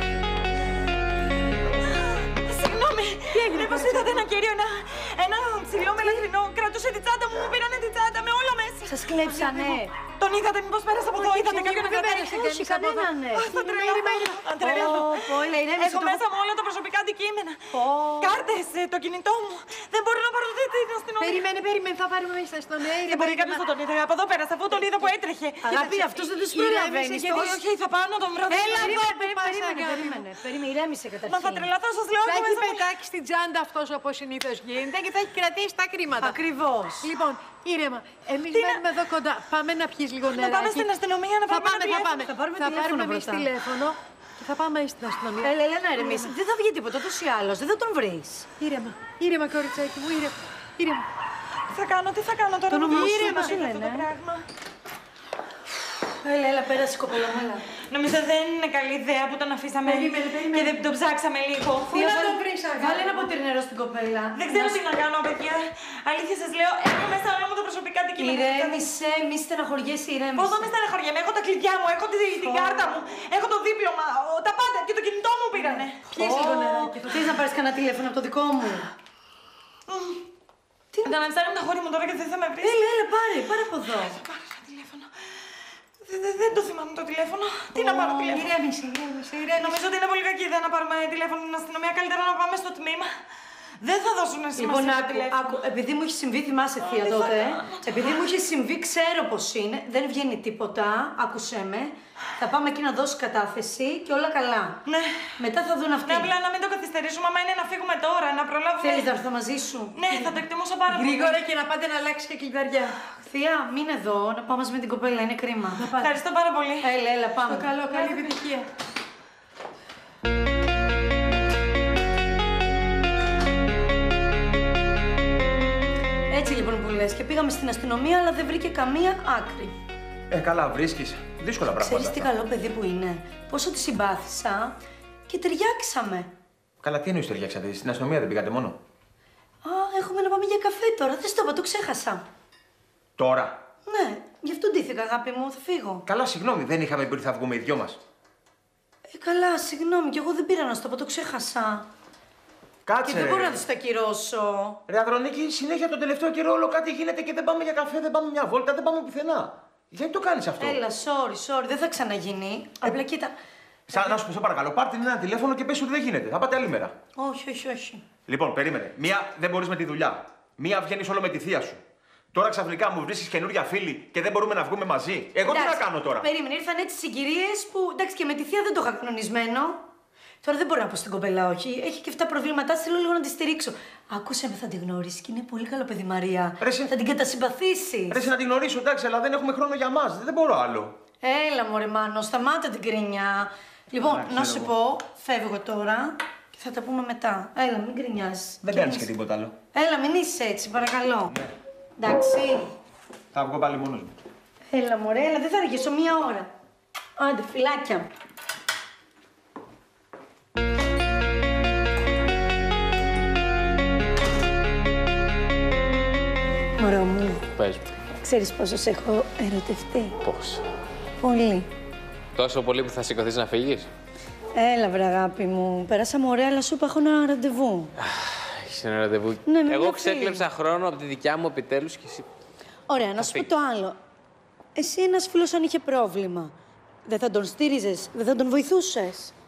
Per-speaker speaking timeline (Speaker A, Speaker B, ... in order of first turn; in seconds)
Speaker A: 1.9-12.1, 13.3-21.4, 23.0-26.4, 27.0-29.0, 31.2-32.9, 38.5-38.9, 40.3-42.1, 51.7-54.4, 57.8-62.0, 64.3-68.9, 70.3-76.1, 79.9-80.2, 81.0-82.9, 83.9-88.5, 89.5-93.1, 93.8-95.5, 96.8-98.2, 104.8-105.3, 106.0-109.1, 109.9-111.4, 116.0-116.9
Speaker B: 3.3-4.2, 11.2-14.3, 21.2-23.6, 26.5-27.2, 28.5-30.3, 32.2-36.4, 37.0-40.9, 41.5-46.3, 48.6-51.1, 52.9-53.3, 59.8-60.8, 61.9-63.3, 72.4-72.9, 76.0-77.4, 87.8-89.8, 110.9-113.0, 115.8-116.2, 117.4-118.7
Speaker C: 8.9-9.9, 11.3-16.2, 17.7-18.4, 25.6-27.6, 28.5-31.7, 36.2-37.1, 41.9-43.5, 45.4-48.5, 52.7-54.1, 56.0-57.7, 61.9-64.8, 68.2-70.7, 76.1-78.9, 82.6-84.2, 94.6-104.8, 105.4-106.3, 108.8-110.0, 113.2-115.9, 116.8-118.3, 126.3-129.7, 131.8-134.7, 135.3-136.3, 139.6-142.2, 143.8-146.0, 149.1-151.9, 153.0-154.8, 160.6-163.3, 167.2-168.0, 175.4-179.8, 180.4-188.2, 191.2-199.1, 199.7-201.3, 202.0-202.7, 204.7-206.5, 207.2-208.1, 216.8-217.4, 218.1-220.2, 221.2-221.7, 224.5-227.9, 229.4-230.5, 232.9-234.0, 234.8-236.5, 237.1-239.3
Speaker D: 130.3-132.3, 136.8-138.8, 143.2-143.6, 146.1-148.0, 152.8-153.6, 154.9-160.8, 163.9-166.9, 168.3-171.8, 172.3-176.3, 186.6-186.9, 188.1-191.0, 194.0-194.7, 198.6-199.6, 203.3-204.1
Speaker E: 217.6-217.9, 220.2-220.6, 222.3-223.9, 228.0-232.3, 233.2-233.5